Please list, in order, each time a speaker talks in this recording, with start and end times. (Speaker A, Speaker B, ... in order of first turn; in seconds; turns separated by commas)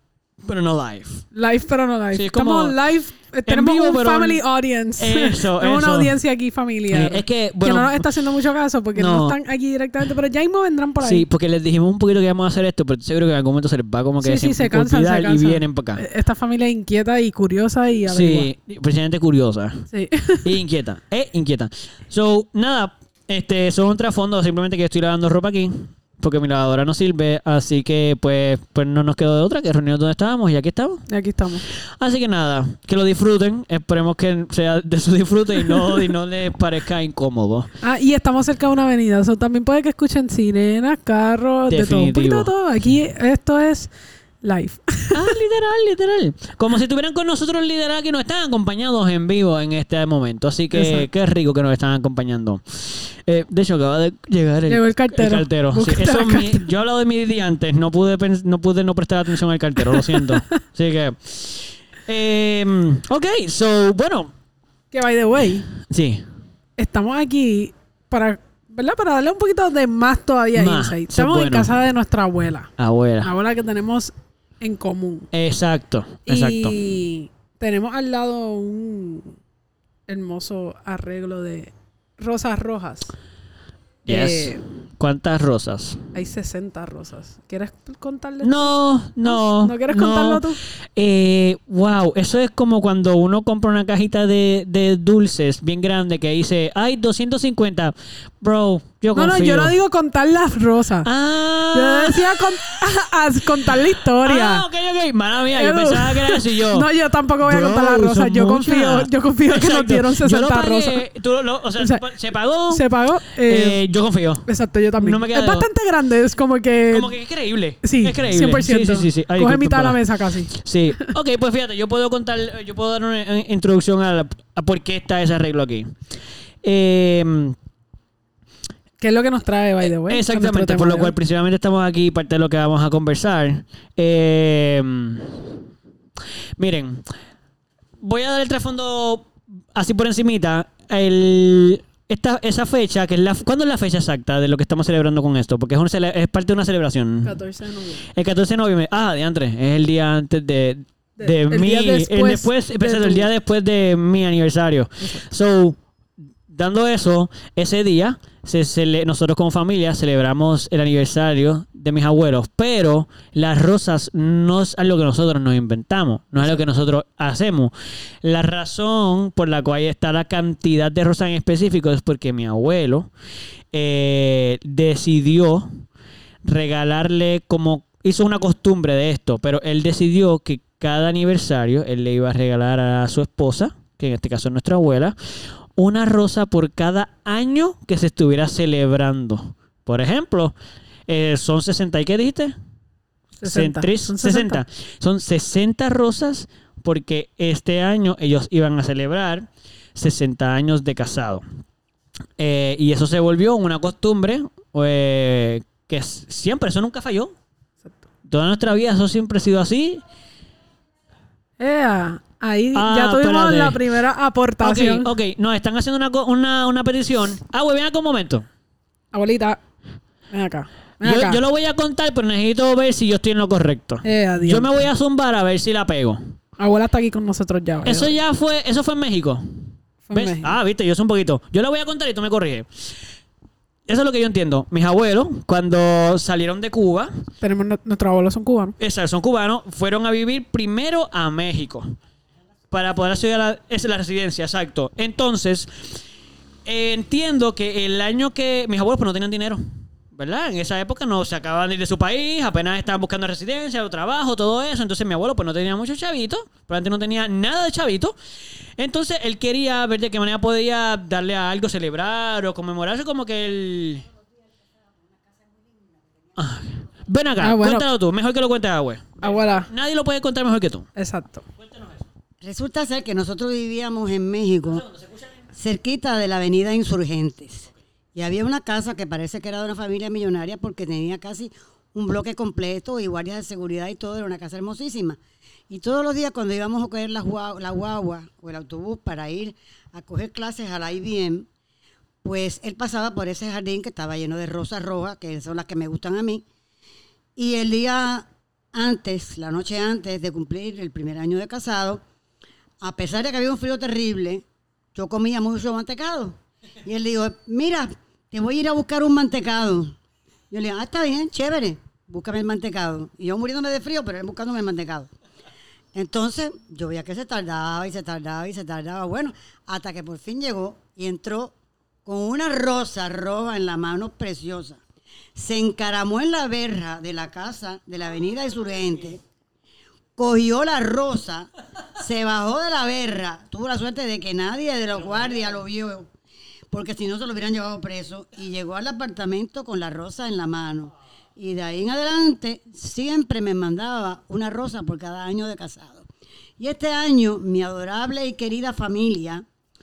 Speaker A: 0.4-1.2, Speaker B: 1.3-11.3, Speaker A: 2.1-2.8, Speaker A: 3.5-4.4, Speaker A: 5.0-6.2, Speaker A: 6.9-8.1, Speaker A: 8.9-9.4, Speaker A: 11.0-16.0, Speaker B: 14.2-18.5, Speaker A: 18.1-19.9, Speaker B: 19.9-20.5, Speaker A: 20.4-31.1, Speaker B: 31.1-31.6, Speaker A: 32.0-37.7, Speaker B: 35.6-36.0, Speaker B: 37.8-43.9, Speaker A: 41.7-42.5, Speaker B: 44.4-45.3, Speaker A: 45.1-64.3, Speaker B: 50.7-51.1, Speaker B: 54.7-56.7, Speaker B: 59.8-60.4, Speaker B: 64.9-65.7, Speaker A: 65.7-66.2, Speaker B: 66.8-72.7, Speaker A: 70.5-71.7, Speaker A: 72.8-73.3, Speaker B: 73.2-75.3, Speaker A: 75.3-76.7, Speaker B: 76.3-79.3, Speaker B: 80.1-83.1, Speaker A: 84.0-86.0, Speaker B: 84.1-84.6, Speaker B: 86.1-88.7, Speaker A: 88.4-90.4, Speaker B: 89.2-90.6, Speaker A: 91.0-99.7, Speaker B: 99.1-101.1, Speaker A: 101.0-102.8, Speaker B: 101.7-104.7, Speaker A: 103.6-106.9, Speaker B: 105.5-111.0, Speaker A: 107.4-112.8, Speaker B: 111.8-112.0, Speaker B: 112.7-113.8, Speaker A: 113.4-114.4, Speaker B: 114.5-117.1, Speaker A: 115.0-115.7, Speaker A: 116.9-125.9, Speaker B: 117.8-121.1, Speaker A: 126.6-127.5, Speaker B: 129.0-131.1, Speaker A: 129.8-135.6, Speaker A: 136.6-137.0, Speaker A: 138.0-147.3, Speaker B: 147.2-148.1, Speaker A: 148.1-155.8, Speaker B: 151.2-153.3, Speaker A: 156.5-173.1, Speaker A: 173.7-175.8, Speaker A: 176.4-185.2, Speaker A: 185.8-190.5, Speaker A: 191.1-192.5, Speaker B: 193.4-194.6, Speaker A: 193.4-201.4, Speaker A: 202.4-207.3, Speaker A: 208.3-210.0, Speaker B: 211.6-215.1, Speaker A: 212.7-213.8, Speaker A: 214.6-218.4, Speaker B: 219.1-219.6, Speaker B: 220.3-221.4, Speaker A: 221.0-226.2, Speaker B: 224.0-224.7, Speaker B: 226.6-228.2, Speaker A: 227.8-232.9, Speaker B: 230.1-230.6, Speaker A: 233.9-237.1, Speaker B: 237.4-238.8, Speaker A: 238.8-241.9, Speaker A: 242.7-246.0, Speaker A: 246.6-249.6, Speaker A: 250.1-258.1, Speaker A: 258.8-264.1, Speaker A: 266.4-270.9, Speaker B: 267.4-267.9, Speaker B: 269.2-269.7, Speaker B: 270.9-271.4, Speaker A: 271.6-272.1, Speaker C: 272.4-274.9, Speaker A: 274.7-275.3, Speaker C: 275.5-291.5, Speaker C: 292.2-296.4, Speaker C: 297.4-302.0, Speaker C: 302.8-309.9, Speaker C: 310.5-315.1, Speaker C: 315.9-324.8, Speaker C: 325.3-329.2, Speaker C: 330.2-336.1, Speaker C: 336.7-349.4